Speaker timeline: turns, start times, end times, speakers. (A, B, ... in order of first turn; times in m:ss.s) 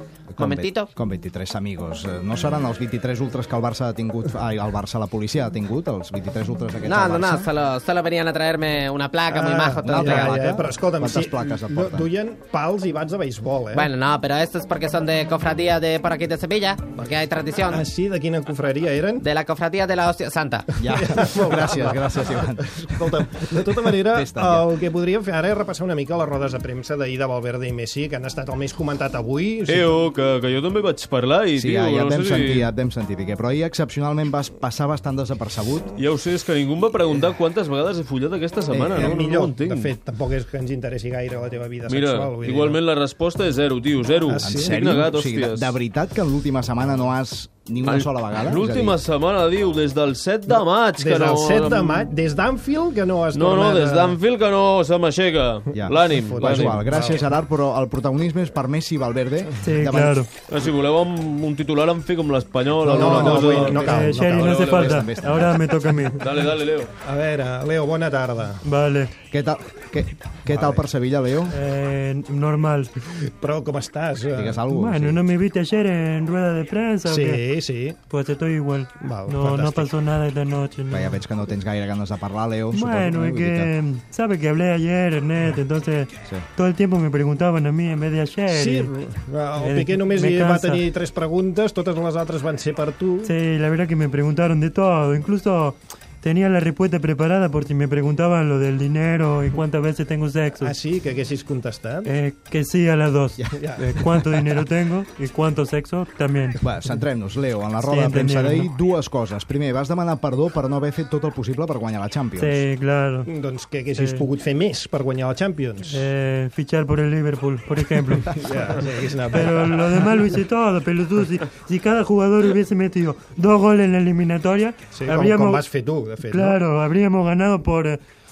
0:00.3-0:07.5 A
0:00.4-0:00.9 B
0:06.8-0:10.5 B
0:09.3-0:13.9 C
0:09.9-0:12.1 A
0:13.7-0:17.8 B
0:17.7-0:19.3 C
0:19.2-0:20.7 B
0:20.8-0:24.8 A
0:20.9-0:30.0 C
0:29.7-0:32.7 D
0:31.6-0:35.9 A
0:36.0-0:39.9 D
0:38.7-0:39.1 A
0:38.9-0:42.8 C
0:41.9-0:45.8 D
0:44.2-0:44.8 C
0:44.4-0:49.0 A
0:47.8-0:52.1 D
0:50.5-0:54.2 C
0:53.3-0:56.8 D
0:55.7-1:00.2 A
0:56.1-0:57.3 C
0:59.6-1:00.3 E
1:00.5-1:05.1 D
1:02.8-1:04.8 C
1:02.8-1:05.6 A
1:03.1-1:06.3 E
1:06.2-1:06.9 D
1:07.0-1:08.6 C
1:08.6-1:09.1 E
1:09.3-1:11.6 A
1:10.5-1:10.8 C
1:11.5-1:12.9 E
1:13.3-1:14.6 C
1:14.3-1:15.2 A
1:14.7-1:17.4 E
1:17.1-1:18.0 C
1:18.1-1:21.2 E
1:19.0-1:19.9 C
1:20.9-1:23.7 A
1:22.7-1:28.9 E
1:28.5-1:33.3 C
1:29.6-1:30.8 E
1:33.2-1:40.8 E
1:40.6-1:42.1 C
1:42.0-1:46.6 E
1:43.5-1:43.8 C
1:46.6-1:52.6 A
1:47.8-1:48.7 E
1:52.4-1:53.3 E
1:53.3-1:56.0 C
1:54.0-1:54.2 E
1:55.9-1:58.7 E
1:58.3-2:00.1 C
1:59.3-2:05.6 E
2:04.9-2:06.6 C
2:06.2-2:08.0 E